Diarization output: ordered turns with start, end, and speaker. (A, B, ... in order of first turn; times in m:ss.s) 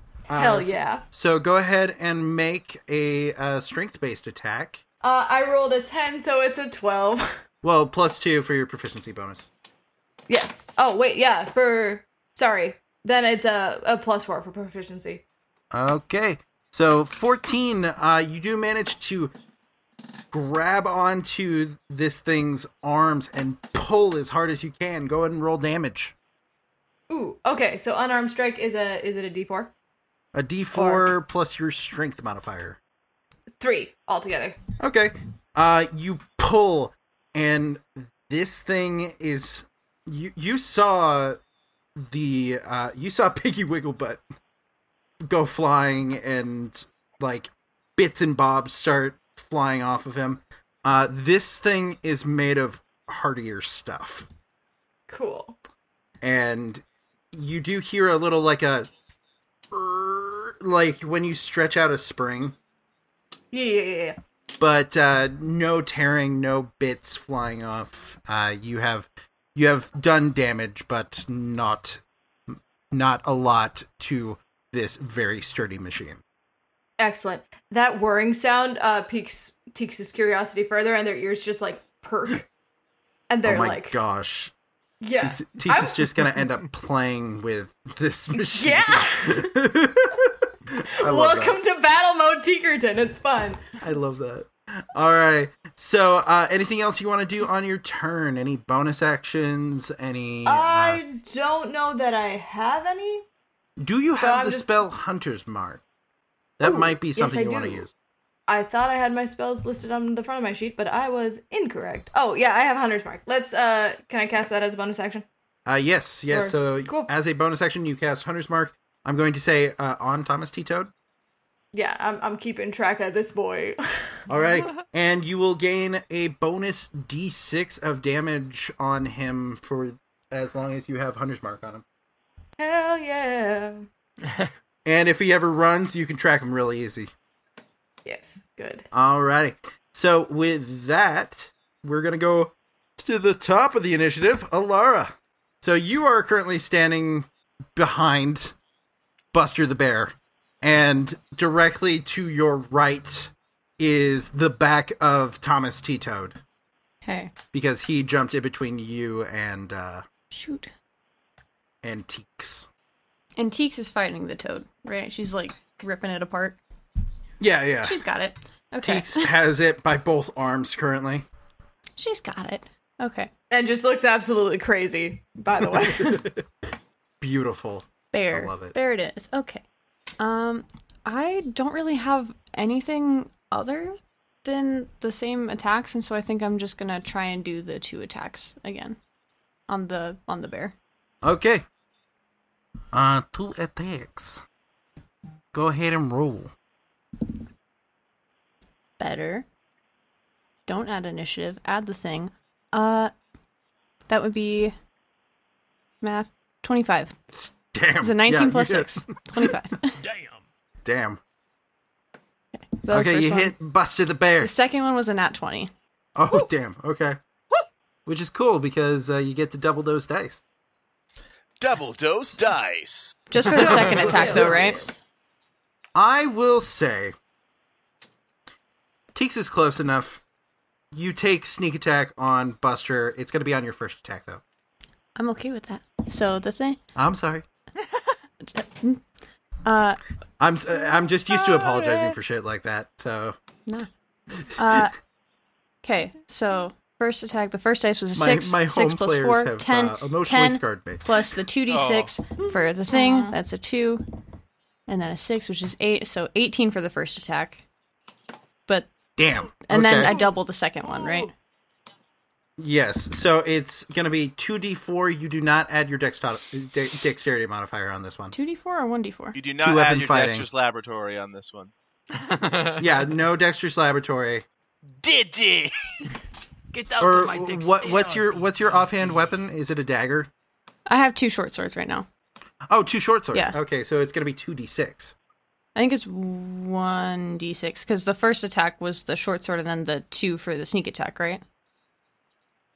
0:00.3-0:04.8 A
0:00.3-0:01.0 B
0:05.0-0:07.4 B
0:07.6-0:09.5 A
0:10.3-0:15.2 B
0:15.7-0:19.3 A
0:20.3-0:26.1 A
0:27.1-0:29.7 B
0:30.3-0:32.8 A
0:30.7-0:31.2 B
0:33.6-0:34.6 B
0:34.8-0:41.4 A
0:42.0-0:44.2 A
0:45.2-0:54.3 A
0:55.1-0:55.6 B
0:56.2-0:58.9 A
0:59.7-1:02.6 A
1:03.5-1:04.2 B
1:04.6-1:16.2 A
1:17.0-1:22.5 B
1:23.3-1:24.0 B
1:23.4-1:24.5 A
1:25.0-1:26.2 B
1:25.2-1:31.6 A
1:28.5-1:29.5 B
1:31.0-1:33.6 B
1:33.8-1:41.0 A
1:40.4-1:43.2 B
1:43.8-1:45.8 A
1:44.2-1:44.7 B
1:46.6-1:47.9 A
1:46.6-1:47.9 B
1:48.5-1:55.2 B
1:55.7-2:00.9 A
1:56.3-1:57.1 B
2:01.7-2:04.2 B
2:04.3-2:11.8 A
2:12.6-2:13.8 B
2:14.8-2:17.1 A
2:18.0-2:18.9 B
2:18.9-2:28.5 A
2:29.3-2:36.4 A
2:37.0-2:37.3 C
2:37.5-2:40.0 A
2:40.3-2:40.7 C
2:41.8-2:42.7 A
2:43.4-2:46.6 C
2:47.4-2:48.0 A
2:47.8-2:49.4 C
2:48.8-2:51.3 A
2:52.0-2:53.3 C
2:53.5-2:56.3 B
2:55.8-2:56.4 A
2:57.2-2:58.8 A
2:58.1-2:59.6 C
3:00.2-3:09.0 C
3:09.7-3:10.8 C
3:11.2-3:11.6 A
3:12.9-3:14.4 A
3:15.5-3:16.5 A
3:19.0-3:19.5 C
3:20.7-3:23.1 C
3:24.1-3:24.8 C
3:26.0-3:27.1 C
3:27.3-3:29.1 A
3:28.0-3:30.0 C
3:30.1-3:30.4 D
3:30.8-3:31.2 A
3:32.6-3:33.6 C
3:32.9-3:34.5 A
3:34.4-3:35.7 C
3:36.2-3:37.2 A
3:38.1-3:40.4 A
3:41.6-3:43.2 E
3:43.3-3:44.8 C
3:43.5-3:44.7 A
3:43.5-3:45.0 B
3:46.0-3:47.2 A
3:49.1-3:50.2 A
3:50.9-3:54.4 A
3:55.2-3:56.8 C
3:57.0-3:57.5 A
3:58.4-3:59.0 C
3:59.6-4:00.0 C
4:00.4-4:03.4 A
4:01.3-4:02.0 C
4:04.5-4:04.9 C
4:05.8-4:14.0 C
4:08.2-4:11.1 A
4:11.7-4:12.1 E
4:14.9-4:17.6 C
4:19.2-4:20.2 A
4:19.7-4:21.3 C
4:22.6-4:28.3 A
4:28.3-4:29.4 C
4:29.4-4:31.7 E
4:29.6-4:30.5 A
4:32.2-4:32.8 D
4:32.8-4:34.4 A
4:35.0-4:35.7 E
4:36.7-4:39.2 D
4:37.0-4:40.3 A
4:40.9-4:42.1 C
4:42.7-4:45.2 A
4:45.8-4:51.4 C